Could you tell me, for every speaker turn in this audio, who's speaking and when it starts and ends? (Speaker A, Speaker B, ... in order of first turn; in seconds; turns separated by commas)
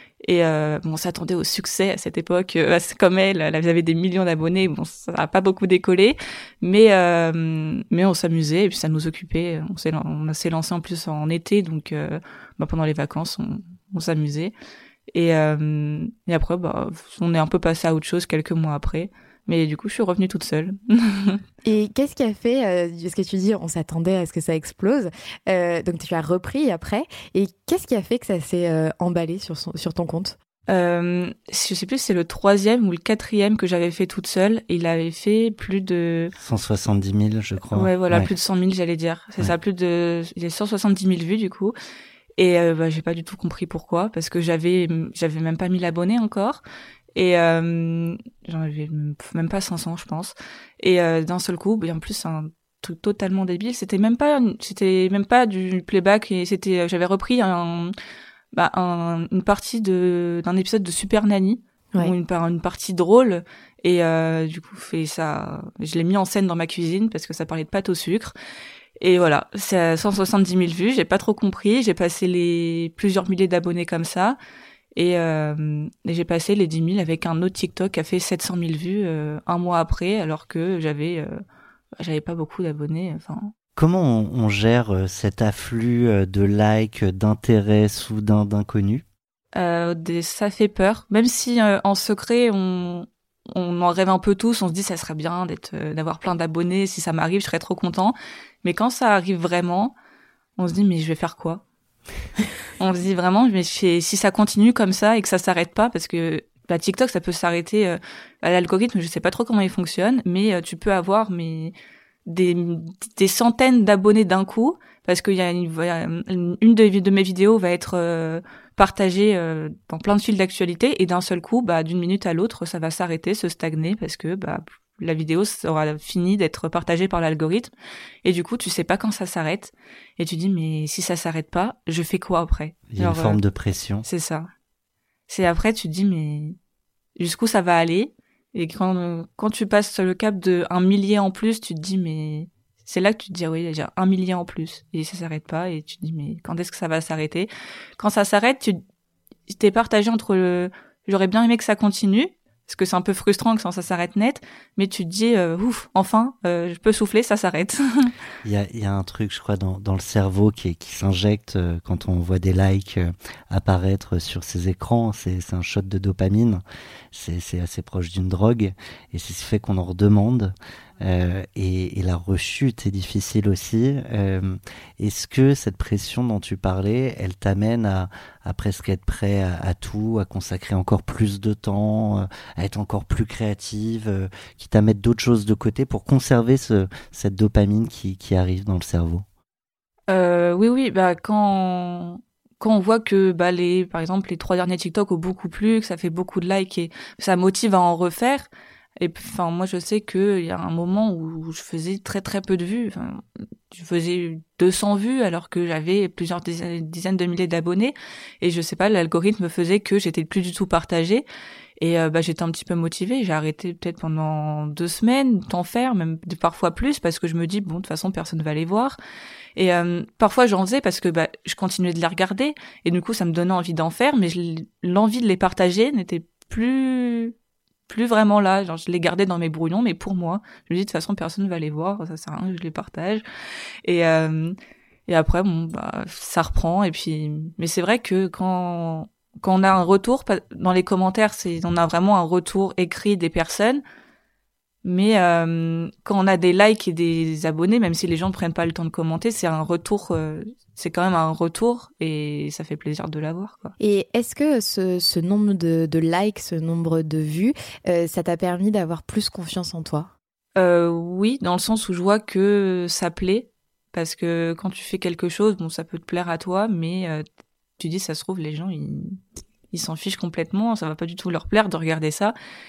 Speaker A: 0.2-14.5, Speaker A: 15.1-21.4, Speaker B: 21.6-30.4, Speaker A: 30.7-36.3, Speaker C: 36.4-38.3, Speaker A: 37.7-41.8, Speaker A: 42.4-46.6, Speaker A: 47.1-57.9, Speaker A: 58.5-68.3, Speaker A: 69.0-74.4, Speaker A: 75.0-81.4, Speaker A: 82.0-83.5, Speaker C: 83.8-89.0, Speaker A: 89.6-100.0, Speaker A: 100.6-101.6, Speaker A: 102.8-111.7, Speaker A: 112.3-127.7, Speaker A: 128.2-133.4, Speaker C: 132.9-134.1, Speaker A: 134.0-134.5, Speaker A: 135.3-136.6, Speaker A: 137.2-148.8, Speaker A: 149.5-158.1, Speaker C: 158.4-189.2, Speaker A: 190.1-198.5, Speaker A: 199.0-211.3, Speaker A: 211.8-219.0, Speaker A: 219.6-227.3, Speaker A: 227.9-233.2, Speaker A: 233.8-234.6, Speaker A: 235.1-243.8, Speaker A: 244.8-253.7, Speaker B: 253.8-260.1, Speaker A: 260.6-267.2, Speaker A: 267.8-269.2, Speaker A: 269.7-272.4